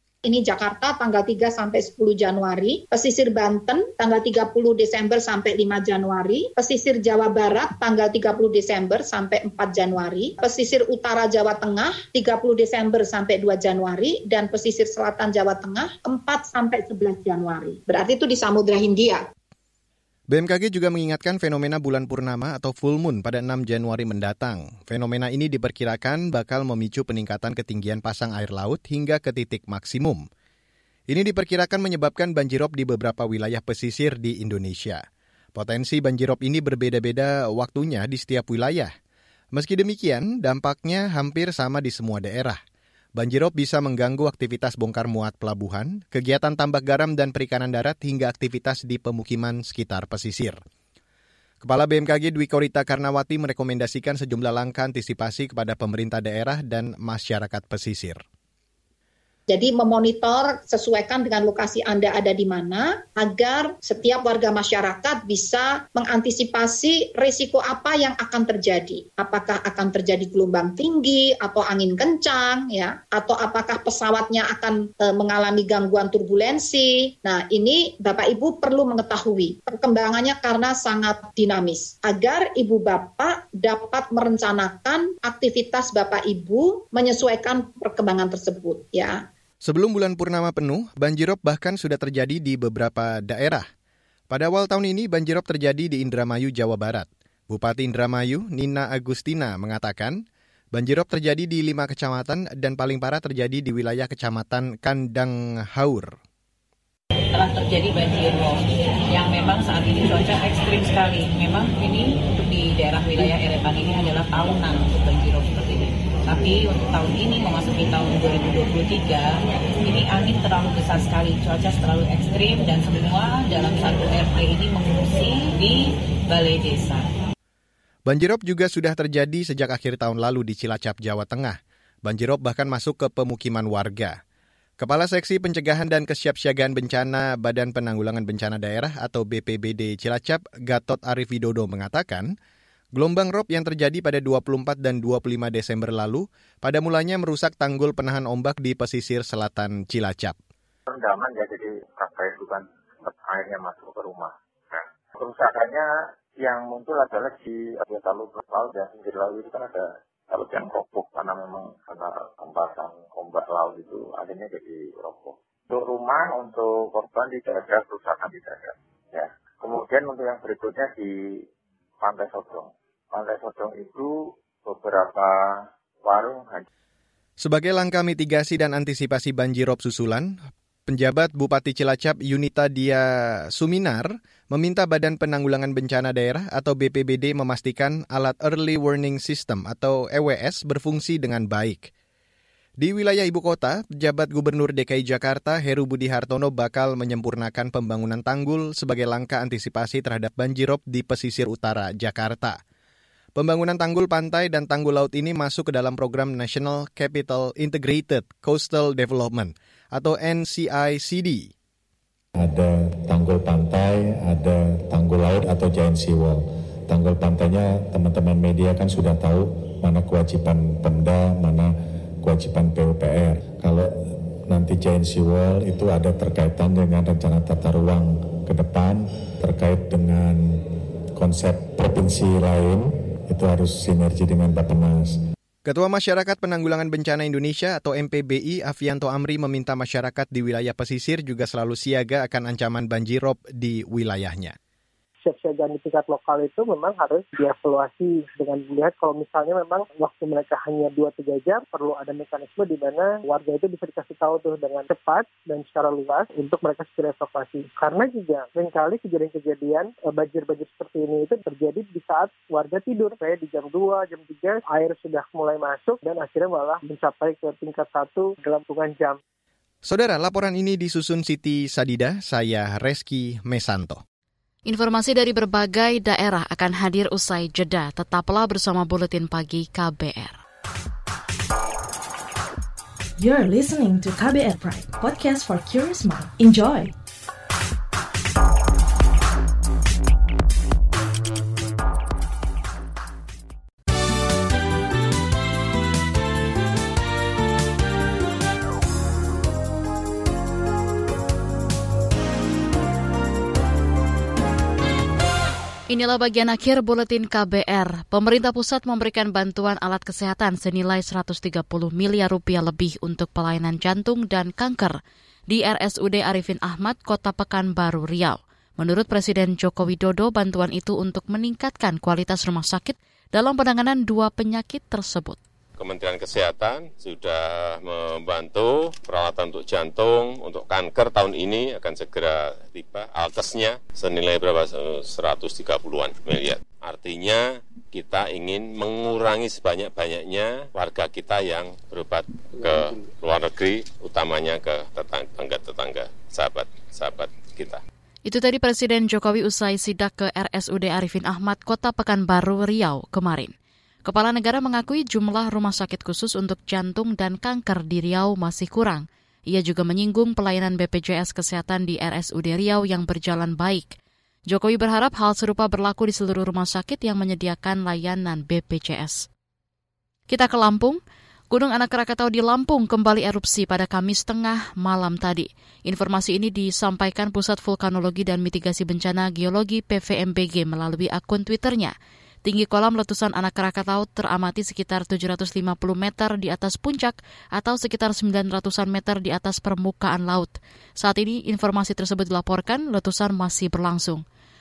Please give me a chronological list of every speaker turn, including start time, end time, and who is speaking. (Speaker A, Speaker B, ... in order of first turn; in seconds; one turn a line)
Speaker A: 0.2-19.2
Speaker B: 20.3-30.3
Speaker B: 31.1-38.9
Speaker B: 39.5-42.6
Speaker B: 43.2-50.6
Speaker B: 51.6-58.2
Speaker A: 59.5-89.2
Speaker B: 89.6-93.7
Speaker B: 94.3-106.2
Speaker C: 107.3-127.1
Speaker B: 128.1-134.2
Speaker B: 134.8-142.3
Speaker B: 142.9-150.4
Speaker D: 150.9-155.9
Speaker D: 156.4-171.1
Speaker D: 172.0-174.1
Speaker D: 174.7-175.4
Speaker D: 176.1-176.7
Speaker B: 177.4-180.4
Speaker B: 180.9-191.9
Speaker B: 192.8-202.6
Speaker B: 203.4-211.5
Speaker E: 212.4-223.9
Speaker E: 224.5-230.6
Speaker E: 231.2-235.2
Speaker B: 235.7-244.6
Speaker F: 245.2-269.2
Speaker B: 269.9-274.0
Speaker G: 274.7-280.4
Speaker H: 283.2-286.9
Speaker G: 305.9-315.0
Speaker G: 315.5-325.4
Speaker I: 325.8-347.8
Speaker G: 348.3-353.5
Speaker G: 354.1-364.0
Speaker G: 364.5-369.3
Speaker G: 370.3-371.0
Speaker G: 371.5-381.9
Speaker G: 382.4-394.2